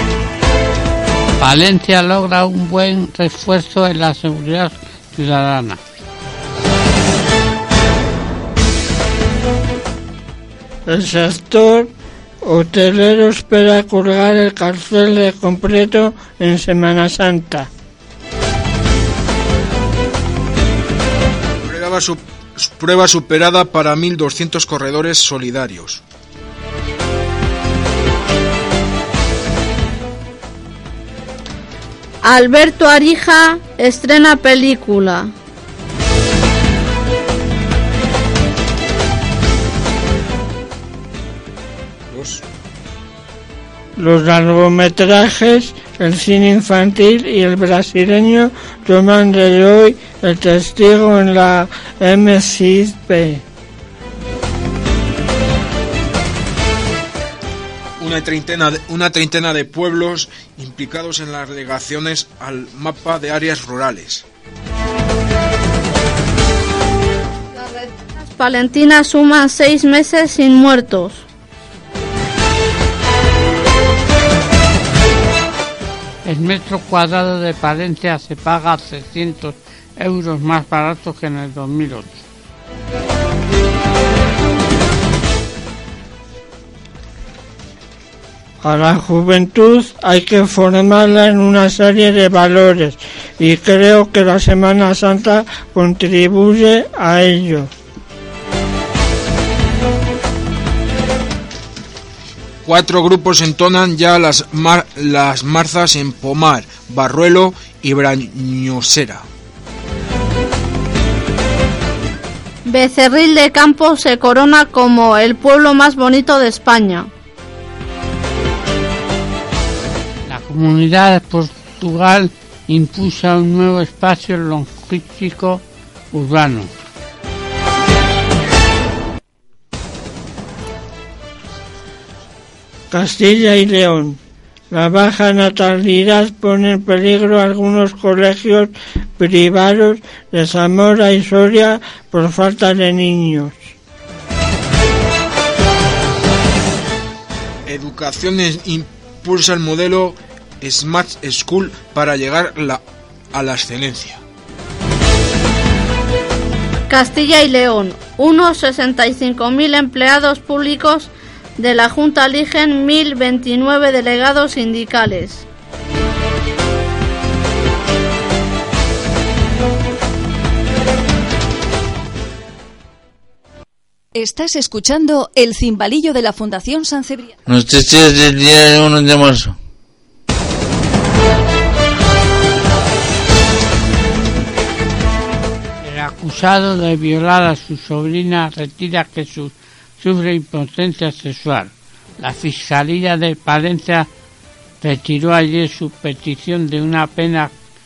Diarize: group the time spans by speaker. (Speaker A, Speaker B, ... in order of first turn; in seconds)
Speaker A: 1.4-5.8, 76.2-82.2, 120.3-126.7, 185.8-194.1, 194.8-197.5
Speaker B: 10.9-11.9, 12.4-17.7, 44.0-53.4, 88.6-97.7, 132.9-134.2, 134.7-143.7
Speaker C: 21.6-26.0, 42.1-42.4, 58.0-64.2, 102.7-109.3, 147.7-152.8, 153.3-154.2
Speaker D: 32.2-35.3, 67.5-71.3, 112.7-117.1, 156.9-165.4
Speaker E: 174.2-177.4
Speaker F: 177.5-179.6